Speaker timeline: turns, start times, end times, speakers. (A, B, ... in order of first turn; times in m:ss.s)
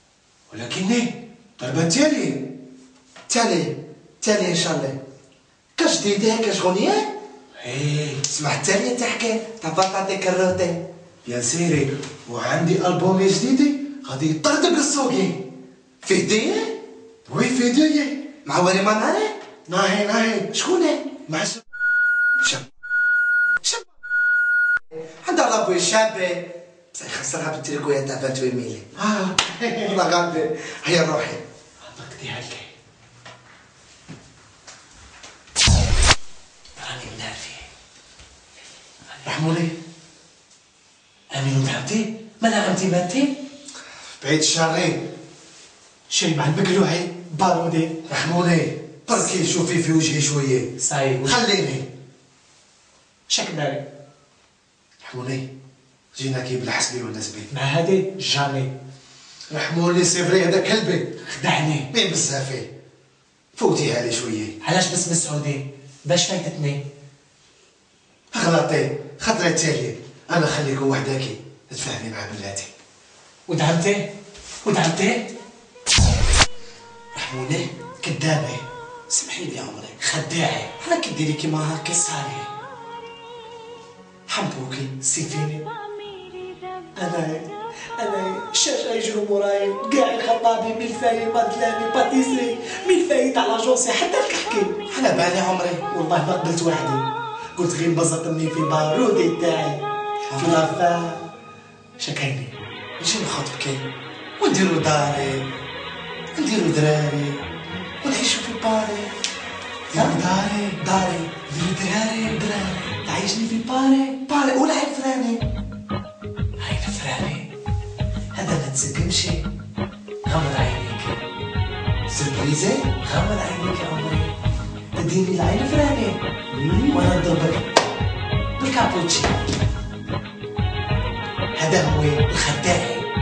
0:00.5-0:01.1 A
0:01.6-0:02.5 B
0:03.3-0:05.0 C
0:05.8-0:07.0 C
0:07.6-0:08.2 A
0:08.3-0:10.8 C
0:11.2-0:15.4 B
0:16.0-0:16.7 C
0:17.3-0:18.2 B
0:18.4-0:19.3 C
0:19.7-0:20.5 B
0:20.5-0:21.2 C
0:21.3-0:21.6 B
0:25.2-0:28.9 C
0:29.0-0:30.0 B
0:29.8-0:31.4 C
0:31.8-0:32.7 A
0:36.8-0:37.7 A
0:39.2-0:39.7 B
0:41.3-0:43.4 A
0:44.2-0:45.0 B
0:46.1-0:48.2 A
0:48.1-0:50.7 B
0:50.8-0:51.4 A
0:51.2-0:51.8 B
0:53.3-0:53.8 A
0:55.1-0:55.4 B
0:56.2-0:57.5 B
0:57.5-0:58.7 A
0:59.5-1:01.1 B
1:01.3-1:01.9 A
1:01.9-1:02.7 B
1:03.6-1:04.5 B
1:04.6-1:06.8 A
1:08.3-1:12.7 B
1:13.5-1:14.0 A
1:14.6-1:15.2 A
1:17.2-1:17.7 C
1:18.0-1:18.6 A
1:19.1-1:19.9 C
1:20.0-1:20.7 A
1:20.8-1:22.1 C
1:22.2-1:22.5 A
1:24.3-1:25.0 C
1:25.0-1:25.6 A
1:27.0-1:27.5 A
1:28.0-1:34.8 A
1:34.9-1:35.8 C
1:35.9-1:39.8 A
1:40.3-1:40.6 C
1:40.3-1:41.2 A
1:42.0-1:42.5 A
1:43.0-1:43.8 C
1:44.4-1:45.4 C
1:46.4-1:46.7 C
1:48.0-1:49.1 C
1:49.9-1:50.8 A
1:49.9-1:50.2 C
1:50.8-1:51.3 C
1:51.5-1:54.2 A
1:54.3-1:55.4 C
1:56.6-1:57.5 A
1:58.3-1:59.4 A
2:00.3-2:01.2 A
2:02.1-2:02.9 C
2:03.0-2:04.3 A
2:05.0-2:06.2 A
2:06.5-2:07.0 C
2:06.9-2:07.7 A
2:08.6-2:09.3 A
2:11.6-2:13.1 A